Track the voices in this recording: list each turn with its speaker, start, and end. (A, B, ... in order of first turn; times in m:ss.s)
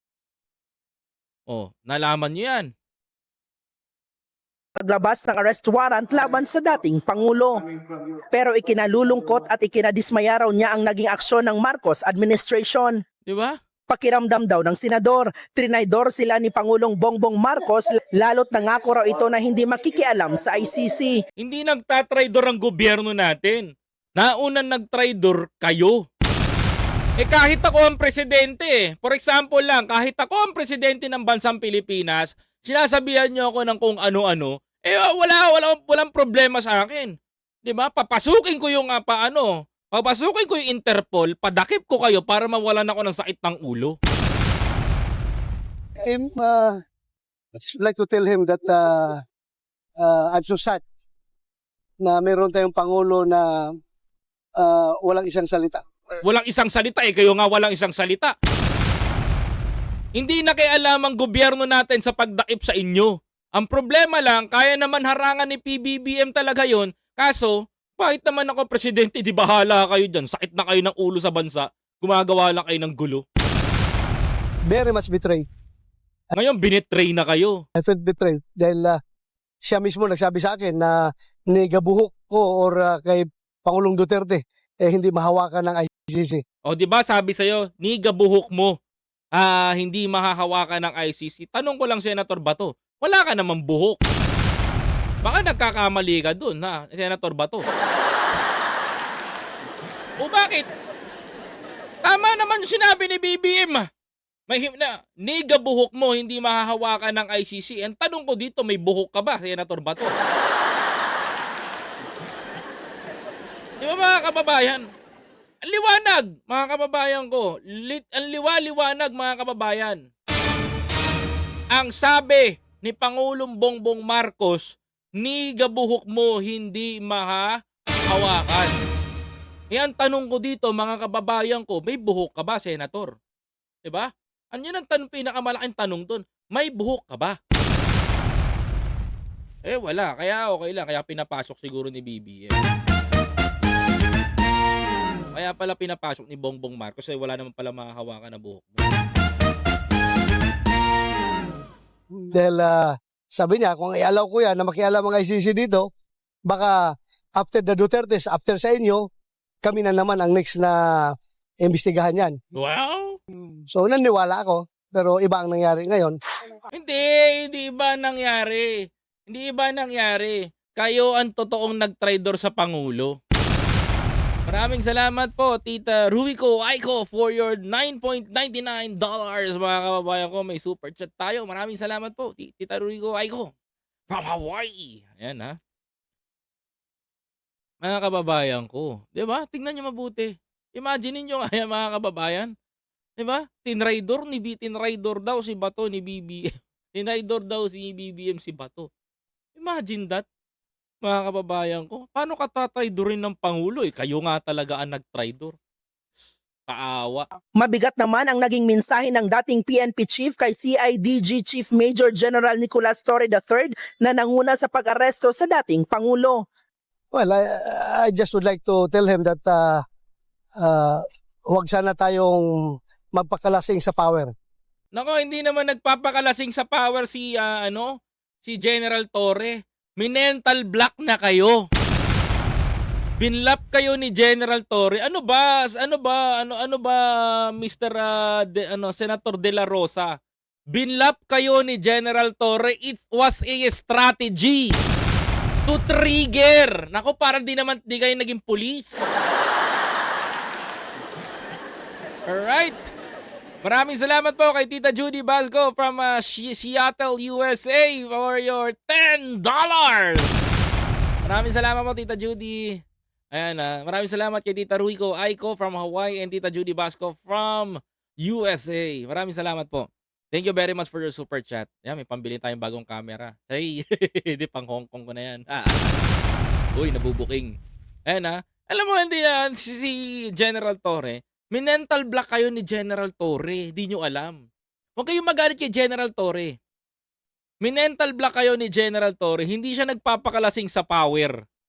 0:01.5-0:02.7 A
0:04.8-0:07.6 B
0:08.3-0:13.0 B
0:13.3-0:13.6 A
0:13.9-0:21.2 B
0:21.4-0:26.0 A
0:27.2-0:37.1 A
0:37.6-0:44.0 A
0:46.0-0:46.8 C
0:47.5-0:49.2 C
0:50.0-0:50.8 C
0:52.0-0:53.8 C
0:54.6-0:55.8 C
0:56.2-0:58.3 A
1:00.2-1:13.2 A
1:14.7-1:15.4 C
1:16.4-1:17.6 A
1:17.8-1:19.0 C
1:19.7-1:21.0 C
1:21.5-1:26.4 C
1:26.7-1:28.8 A
1:29.4-1:34.0 A
1:35.2-1:37.6 A
1:40.2-1:40.7 A
1:42.0-1:43.9 A
1:44.5-1:50.1 A
1:53.8-1:54.9 A
1:55.6-2:00.0 A
2:01.7-2:07.5 A
2:08.1-2:08.8 A
2:09.7-2:13.1 A
2:13.8-2:17.4 A
2:19.6-2:22.6 A
2:25.3-2:28.9 A
2:32.2-2:35.9 C
2:36.5-2:39.1 C
2:39.6-2:42.4 C
2:42.6-2:43.2 A
2:43.7-2:46.2 C
2:46.7-2:48.7 A
2:49.3-2:53.1 A
2:54.5-3:03.5 A
3:04.1-3:05.6 A
3:07.8-3:12.5 A
3:13.2-3:18.9 A
3:19.6-3:20.2 A
3:21.0-3:25.6 A
3:26.7-3:27.3 A
3:27.6-3:36.4 B
3:37.1-3:39.8 C
3:40.6-3:44.3 C
3:44.9-3:51.6 A
3:53.2-4:00.1 A
4:00.7-4:04.8 A
4:05.7-4:09.1 A
4:12.3-4:12.8 A
4:13.6-4:20.4 A
4:21.2-4:22.8 A
4:23.3-4:35.9 A
4:36.8-4:37.5 A
4:38.1-4:44.4 A
4:45.0-4:46.6 A
4:47.6-4:51.4 A